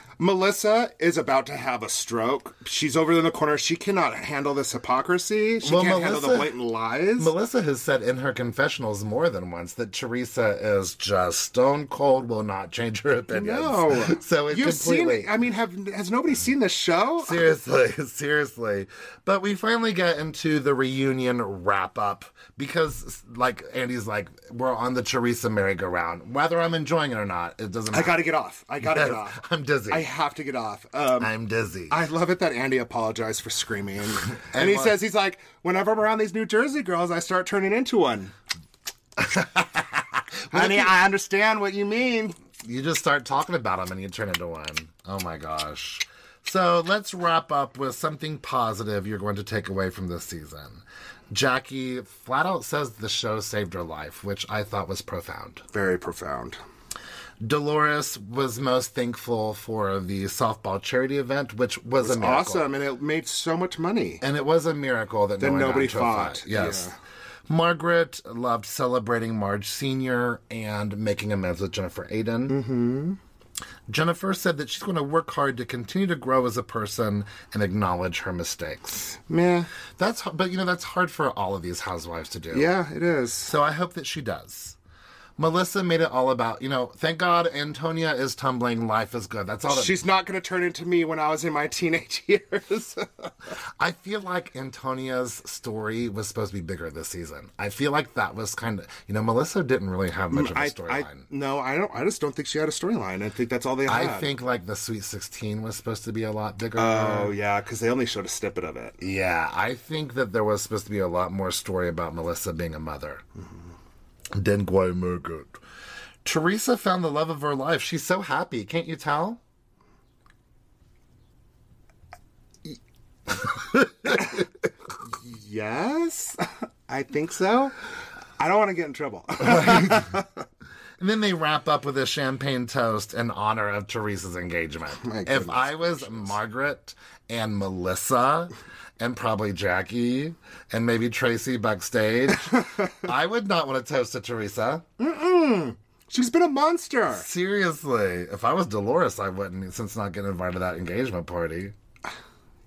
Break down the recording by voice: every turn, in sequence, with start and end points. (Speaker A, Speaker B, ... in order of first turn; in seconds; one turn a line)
Speaker A: 0.2-7.3
Speaker B: 5.6-6.6
Speaker B: 7.2-15.3
Speaker A: 13.3-17.4
Speaker B: 17.2-30.1
Speaker A: 27.9-31.3
Speaker B: 31.2-32.0
Speaker A: 31.9-38.3
Speaker B: 34.5-35.0
Speaker B: 39.2-41.0
Speaker A: 40.5-42.4
Speaker B: 42.6-55.6
Speaker A: 55.7-56.6
Speaker B: 57.4-62.7
Speaker A: 62.0-64.2
Speaker B: 64.2-66.9
Speaker A: 65.4-67.0
Speaker B: 67.5-72.6
Speaker A: 72.5-73.2
Speaker B: 73.9-79.2
Speaker A: 79.2-79.7
Speaker B: 80.0-82.8
Speaker A: 82.5-83.5
Speaker B: 83.5-84.8
Speaker B: 85.4-90.0
Speaker A: 89.7-93.3
Speaker B: 93.8-101.2
Speaker A: 100.3-104.3
Speaker B: 103.9-107.3
Speaker A: 106.8-109.0
Speaker B: 109.0-113.2
Speaker B: 114.4-115.6
Speaker B: 116.2-119.4
Speaker B: 123.7-124.2
Speaker A: 124.1-124.4
Speaker A: 125.1-127.8
Speaker A: 128.4-130.3
Speaker B: 129.4-130.1
Speaker B: 131.0-144.8
Speaker A: 135.0-136.3
Speaker A: 145.0-147.3
Speaker B: 147.1-151.8